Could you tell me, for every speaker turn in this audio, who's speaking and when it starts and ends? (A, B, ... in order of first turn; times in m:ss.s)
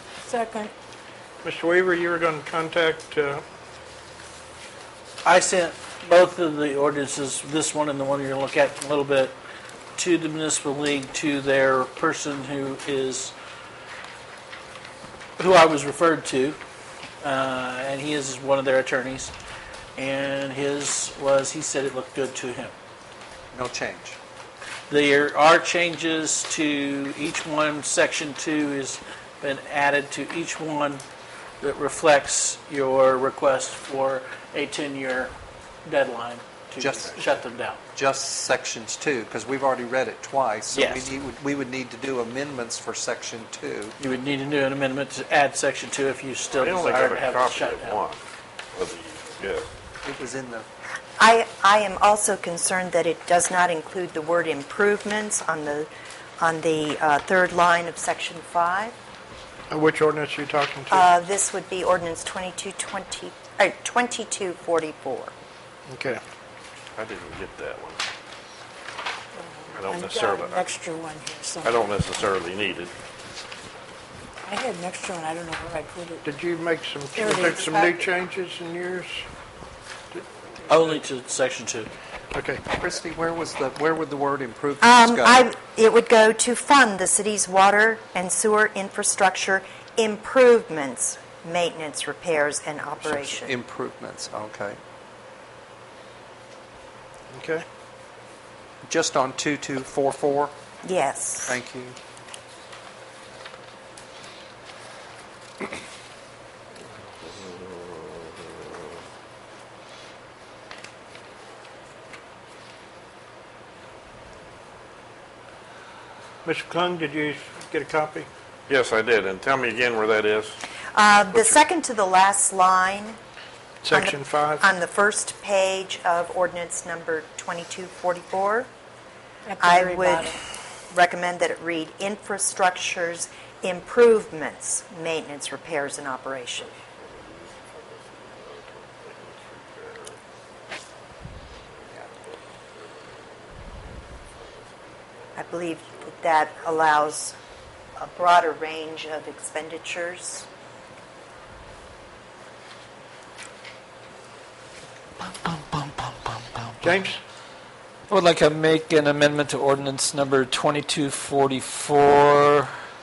0:00.3-0:00.7 A
0:01.4-0:03.4 B
0:05.2-0:09.3 C
0:10.0-0:13.3 C
0:15.4-0:16.6 C
0:17.2-0:19.3 C
0:20.0-0:22.7 C
0:23.5-0:24.2 D
0:24.9-0:31.0 C
0:31.6-0:35.3 C
0:35.8-0:37.8 C
0:36.8-0:43.9 D
0:40.7-0:41.1 C
0:44.0-0:48.0 C
0:46.5-0:48.2 E
0:48.7-0:49.7 E
0:50.0-0:50.7 D
0:51.2-0:59.0 F
0:59.7-1:01.1 B
1:00.9-1:05.3 F
1:05.9-1:06.2 B
1:07.0-1:08.0 E
1:09.4-1:12.1 A
1:09.7-1:10.6 E
1:11.6-1:12.9 E
1:14.4-1:16.2 A
1:16.2-1:19.2 B
1:17.2-1:18.0 A
1:20.7-1:21.9 C
1:22.3-1:22.6 B
1:22.7-1:25.5 D
1:24.8-1:33.5 F
1:33.0-1:34.8 D
1:37.3-1:37.6 B
1:38.8-1:40.5 D
1:40.8-1:41.6 F
1:41.5-1:42.0 D
1:47.3-1:48.3 E
1:56.4-1:58.3 B
1:58.7-2:00.6 E
2:00.9-2:03.2 F
2:01.3-2:01.6 E
2:03.8-2:04.6 B
2:03.9-2:08.7 F
2:09.5-2:10.4 A
2:09.6-2:10.3 F
2:10.9-2:16.7 F
2:16.6-2:20.2 E
2:21.7-2:26.9 E
2:25.4-2:27.3 F
2:28.0-2:30.5 F
2:35.2-2:36.7 G
2:36.8-2:37.2 B
2:38.1-2:42.7 G